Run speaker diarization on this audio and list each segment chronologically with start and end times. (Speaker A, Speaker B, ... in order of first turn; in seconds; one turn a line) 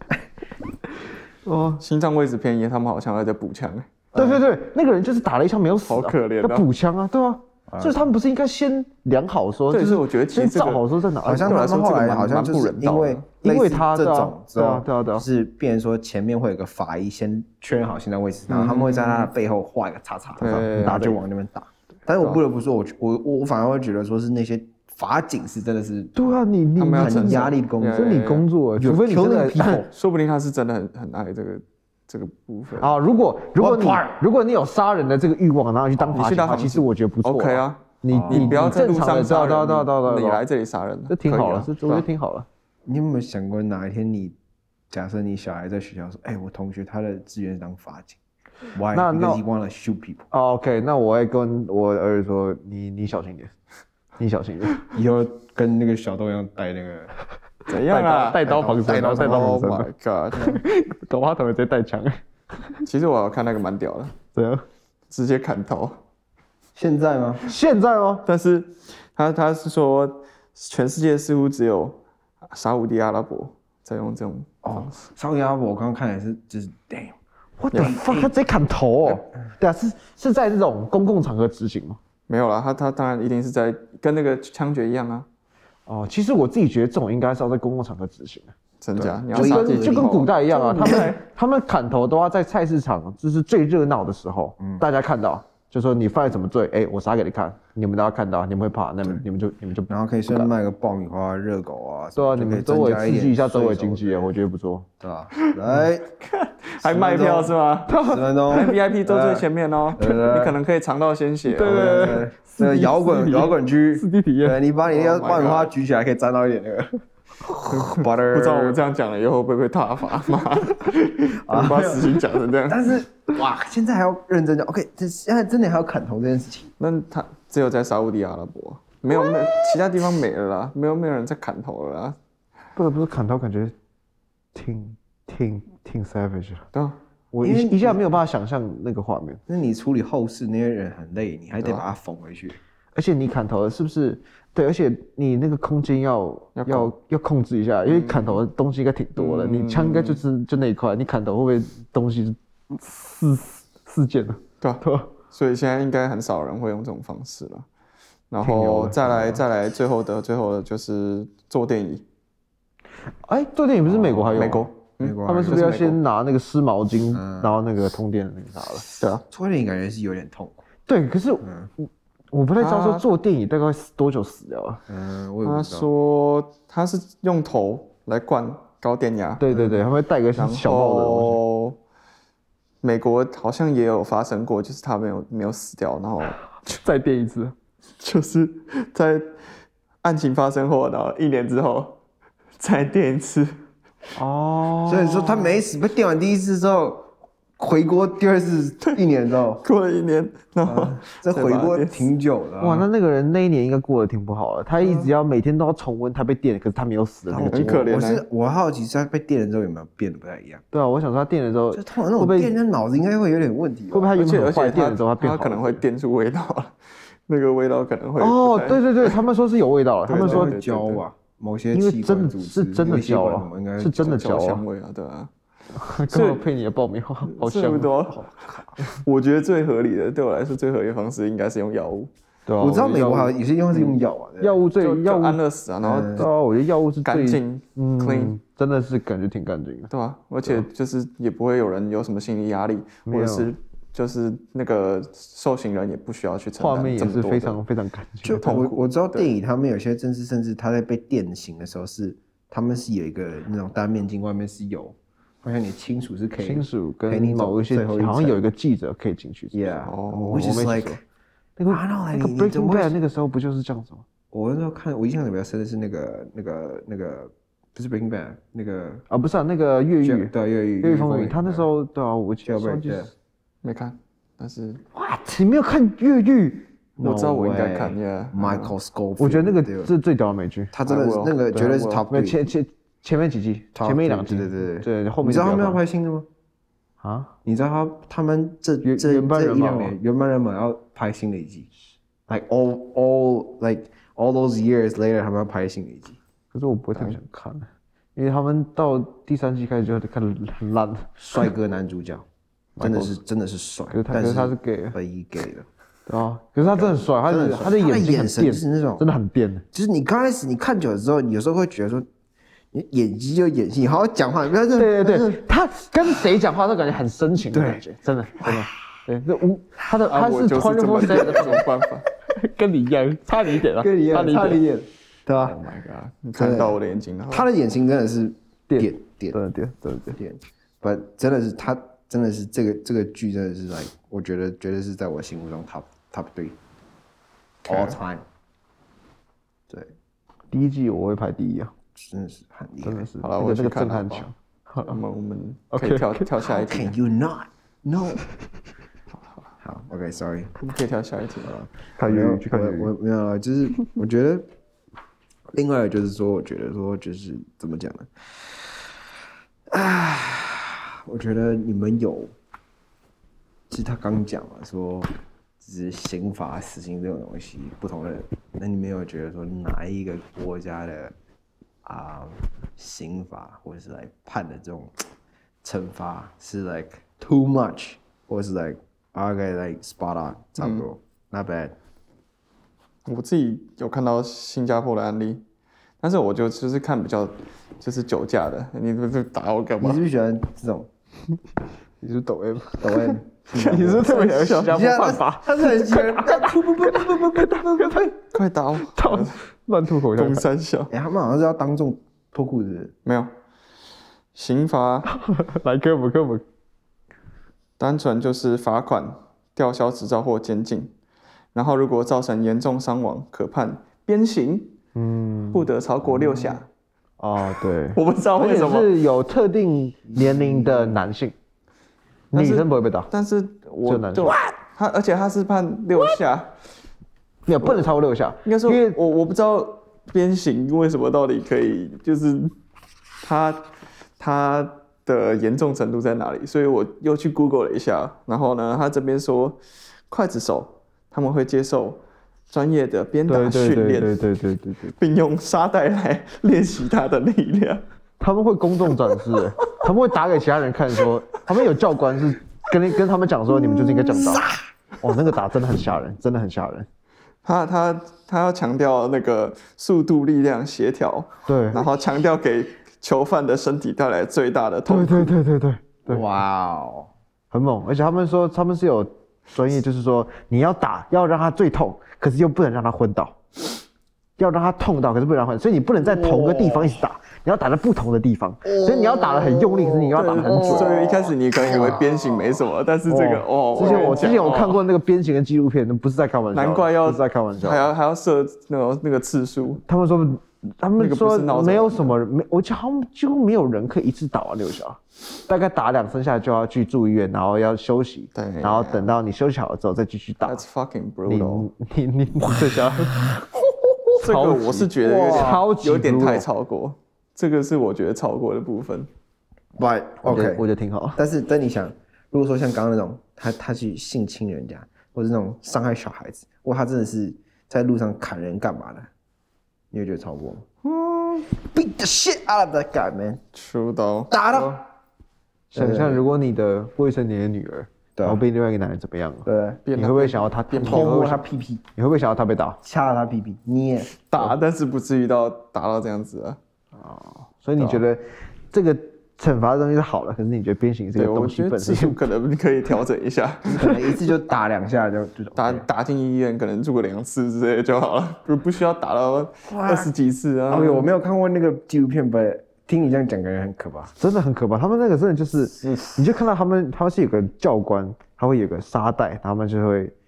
Speaker A: 1.4-1.8
Speaker B: 1.8-3.9
Speaker C: 4.1-4.4
Speaker A: 4.1-11.6
Speaker B: 5.9-6.7
Speaker C: 7.7-8.0
Speaker B: 9.7-13.2
Speaker C: 11.2-26.4
Speaker A: 13.4-15.2
Speaker B: 18.5-19.3
Speaker B: 20.4-21.1
Speaker A: 20.4-21.2
Speaker A: 26.1-29.9
Speaker B: 26.8-28.5
Speaker C: 26.9-28.2
Speaker C: 28.8-29.9
Speaker B: 29.9-32.9
Speaker A: 32.8-40.4
Speaker C: 33.6-34.2
Speaker B: 36.0-42.1
Speaker C: 38.1-38.9
Speaker A: 41.1-42.5
Speaker C: 42.9-44.4
Speaker C: 44.9-48.2
Speaker C: 48.7-50.3
Speaker A: 48.9-49.4
Speaker A: 50.3-53.5
Speaker A: 54.2-54.8
Speaker C: 54.9-57.1
Speaker B: 57.7-60.6
Speaker A: 57.8-62.8
Speaker C: 58.6-59.7
Speaker B: 62.9-64.1
Speaker A: 64.3-64.6
Speaker B: 65.1-66.0
Speaker C: 66.8-67.4
Speaker A: 67.5-68.2
Speaker B: 68.2-74.9
Speaker C: 74.6-77.2
Speaker A: 77.6-82.0
Speaker B: 77.7-78.3
Speaker C: 77.7-78.2
Speaker B: 82.3-85.3
Speaker A: 85.9-88.5
Speaker B: 88.8-91.2
Speaker C: 89.0-91.1
Speaker A: 89.3-100.5
Speaker C: 99.9-104.3
Speaker A: 102.2-104.9
Speaker C: 105.0-106.1
Speaker B: 106.2-108.0
Speaker C: 106.8-110.6
Speaker A: 107.9-108.7
Speaker B: 108.5-112.2
Speaker A: 111.5-114.6
Speaker C: 111.6-117.0
Speaker B: 114.9-115.7
Speaker C: 117.7-118.8
Speaker B: 117.7-122.8
Speaker C: 121.5-126.7
Speaker B: 126.8-132.2
Speaker A: 132.8-133.7
Speaker A: 134.5-136.7
Speaker A: 137.3-139.4
Speaker C: 137.4-138.0
Speaker C: 139.5-142.6
Speaker A: 142.9-155.1
Speaker B: 146.6-146.9
Speaker B: 147.9-148.4
Speaker B: 149.2-150.2
Speaker B: 154.6-157.7
Speaker B: 158.3-162.0
Speaker A: 158.4-159.4
Speaker A: 163.2-164.7
Speaker C: 163.9-166.0
Speaker B: 164.3-166.0
Speaker A: 165.2-168.8
Speaker C: 167.1-167.5
Speaker C: 168.8-170.6
Speaker A: 170.9-174.8
Speaker C: 171.4-171.7
Speaker B: 172.6-173.0
Speaker C: 174.9-175.9
Speaker B: 175.4-179.4
Speaker A: 179.4-181.4
Speaker C: 179.5-179.8
Speaker B: 180.3-181.8
Speaker B: 182.8-186.4
Speaker A: 186.7-187.5
Speaker B: 188.0-189.3
Speaker B: 190.0-192.0
Speaker B: 192.6-193.6
Speaker A: 194.2-195.5
Speaker C: 194.9-199.6
Speaker B: 199.6-202.1
Speaker C: 200.6-202.9
Speaker A: 202.6-207.9
Speaker C: 207.3-210.6
Speaker B: 207.4-208.2
Speaker A: 210.7-212.5
Speaker C: 211.7-214.1
Speaker A: 213.9-215.8
Speaker B: 214.2-216.7
Speaker B: 217.3-219.2
Speaker A: 218.2-220.5
Speaker B: 220.1-221.0
Speaker C: 220.2-224.2
Speaker A: 221.7-224.6
Speaker B: 223.9-225.3
Speaker A: 225.7-228.3
Speaker B: 226.1-226.4
Speaker B: 227.2-228.3
Speaker B: 228.8-232.1
Speaker A: 232.5-233.3
Speaker C: 232.6-234.6
Speaker A: 234.4-235.4
Speaker B: 234.8-236.3
Speaker C: 235.8-236.3
Speaker A: 236.2-239.9
Speaker B: 237.0-238.4
Speaker B: 239.9-247.6
Speaker A: 243.1-243.5
Speaker A: 246.6-248.4
Speaker C: 248.2-258.4
Speaker B: 248.4-249.3
Speaker A: 256.4-261.0
Speaker C: 259.5-261.0
Speaker B: 259.9-260.6
Speaker A: 261.6-264.0
Speaker C: 261.7-263.0
Speaker C: 264.3-269.1
Speaker A: 269.1-273.1
Speaker C: 270.0-271.7
Speaker C: 272.4-273.1
Speaker B: 273.6-274.8
Speaker A: 274.9-276.7
Speaker B: 277.0-278.7
Speaker C: 277.0-279.9
Speaker A: 279.2-280.7
Speaker C: 280.7-282.4
Speaker B: 280.8-282.1
Speaker A: 282.1-285.8
Speaker C: 283.7-286.3
Speaker A: 287.0-287.3
Speaker C: 287.4-291.7
Speaker A: 288.8-289.9
Speaker C: 292.3-296.2
Speaker A: 296.5-301.2
Speaker C: 301.2-302.2
Speaker A: 302.8-303.1
Speaker C: 302.8-305.6
Speaker A: 303.9-305.0
Speaker A: 306.1-309.6
Speaker C: 306.6-309.0
Speaker C: 309.7-312.1
Speaker C: 312.7-315.4
Speaker A: 314.8-321.7
Speaker C: 317.5-317.8
Speaker B: 320.1-322.0
Speaker A: 322.3-324.6
Speaker C: 323.8-325.6
Speaker B: 325.5-327.5
Speaker C: 326.3-329.4
Speaker A: 328.7-330.2
Speaker C: 330.1-336.6
Speaker C: 337.6-338.2
Speaker B: 337.7-337.9
Speaker A: 340.5-341.7
Speaker C: 341.9-343.1
Speaker A: 342.8-345.0
Speaker B: 343.2-344.3
Speaker B: 344.8-347.0
Speaker A: 345.7-346.2
Speaker C: 346.4-348.2
Speaker C: 349.6-350.6
Speaker B: 350.6-351.5
Speaker C: 351.4-354.4
Speaker A: 352.0-352.9
Speaker C: 355.5-358.9
Speaker C: 359.7-362.3
Speaker C: 363.7-371.1
Speaker C: 371.8-375.0
Speaker C: 375.6-381.8
Speaker B: 380.6-380.9
Speaker B: 383.1-385.4
Speaker B: 386.0-390.0
Speaker C: 389.8-390.9
Speaker A: 392.0-398.1
Speaker C: 392.8-394.1
Speaker B: 393.5-394.9
Speaker C: 394.6-398.1
Speaker B: 398.3-399.4
Speaker A: 398.9-400.4
Speaker B: 400.1-400.9
Speaker C: 400.9-402.9
Speaker B: 403.1-403.3
Speaker B: 404.3-405.1
Speaker A: 405.1-406.4
Speaker B: 407.8-410.9
Speaker B: 411.5-414.7
Speaker A: 414.9-415.7
Speaker B: 415.5-416.7
Speaker A: 417.2-421.3
Speaker B: 417.9-419.0
Speaker C: 420.1-421.0
Speaker A: 422.3-423.1
Speaker B: 422.3-426.5
Speaker A: 423.8-424.4
Speaker A: 427.5-429.0
Speaker B: 428.4-432.5
Speaker B: 433.2-433.7
Speaker B: 434.2-444.1
Speaker A: 443.3-444.9
Speaker B: 445.0-447.8
Speaker A: 448.2-454.5
Speaker A: 455.0-456.9
Speaker B: 457.4-465.3
Speaker A: 461.4-461.8
Speaker A: 464.9-466.2
Speaker C: 466.1-467.1
Speaker A: 467.5-473.4
Speaker A: 474.4-481.0
Speaker C: 476.0-477.0
Speaker C: 478.7-481.1
Speaker B: 480.1-484.8
Speaker C: 481.7-482.0
Speaker A: 483.1-487.9
Speaker C: 483.8-484.4
Speaker B: 486.5-489.8
Speaker A: 489.9-500.6
Speaker B: 491.0-492.1
Speaker B: 498.3-499.1
Speaker B: 500.4-501.7
Speaker A: 501.3-503.3
Speaker B: 504.1-509.1
Speaker A: 504.2-506.5
Speaker C: 505.2-505.6
Speaker C: 509.8-519.1
Speaker A: 510.2-511.2
Speaker C: 519.9-520.6
Speaker B: 520.8-521.5
Speaker C: 521.5-523.4
Speaker B: 523.5-524.7
Speaker C: 524.3-524.8
Speaker A: 525.7-531.4
Speaker C: 525.7-526.2
Speaker C: 529.4-529.8
Speaker B: 529.9-531.1
Speaker C: 530.8-531.8
Speaker A: 531.9-532.8
Speaker C: 532.8-534.5
Speaker B: 534.3-536.6
Speaker A: 537.0-542.2
Speaker B: 537.8-538.0
Speaker B: 541.1-544.0
Speaker C: 543.7-545.9
Speaker B: 545.5-551.1
Speaker C: 549.7-550.1
Speaker C: 550.7-554.1
Speaker A: 554.2-560.1